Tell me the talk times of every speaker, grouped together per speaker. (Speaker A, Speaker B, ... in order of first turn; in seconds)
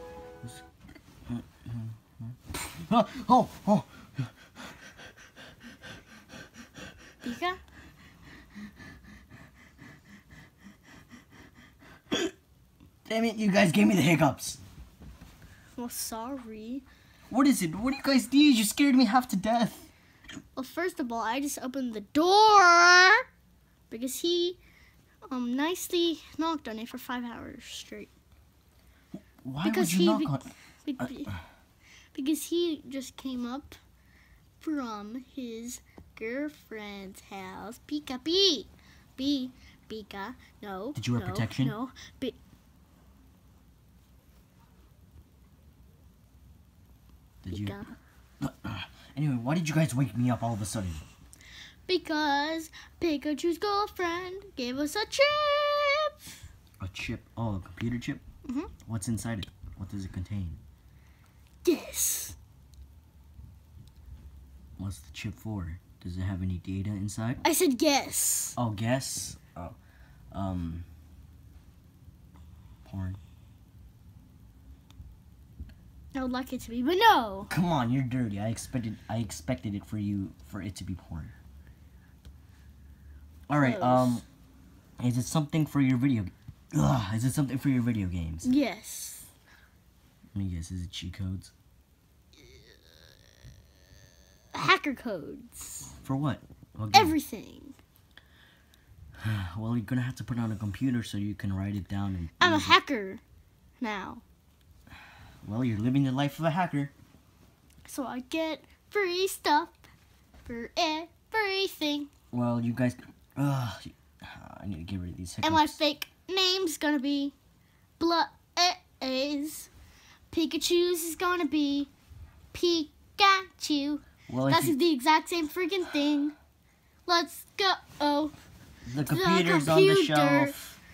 Speaker A: 1.2-4.3, 13.1-14.6, 17.3-19.9, 29.4-30.5, 40.9-41.8, 47.4-47.8, 48.4-51.0, 56.8-58.2, 58.8-60.6, 64.8-67.4, 68.6-69.8, 70.3-70.8, 72.8-73.2, 77.5-81.3, 83.5-84.2, 85.0-88.5, 90.3-91.5, 96.0-97.2, 99.2-102.8, 105.4-106.9, 112.3-115.8, 124.3-124.8, 128.8-130.8
Speaker B: 7.2-7.6, 15.8-16.8, 20.6-23.2, 23.9-24.6, 25.3-28.1, 29.6-31.3, 32.1-33.8, 34.6-42.4, 47.5-47.9, 51.9-56.1, 58.5-58.7, 61.6-62.4, 67.4-68.5, 76.1-77.5, 83.5-84.2, 88.4-89.3, 92.4-92.9, 94.5-95.9, 96.9-97.8, 102.4-103.2, 103.8-104.2, 107.8-109.8, 110.4-112.1, 115.4-117.3, 118.0-119.7, 120.3-121.9, 122.5-126.3, 127.0-128.3, 129.1-130.6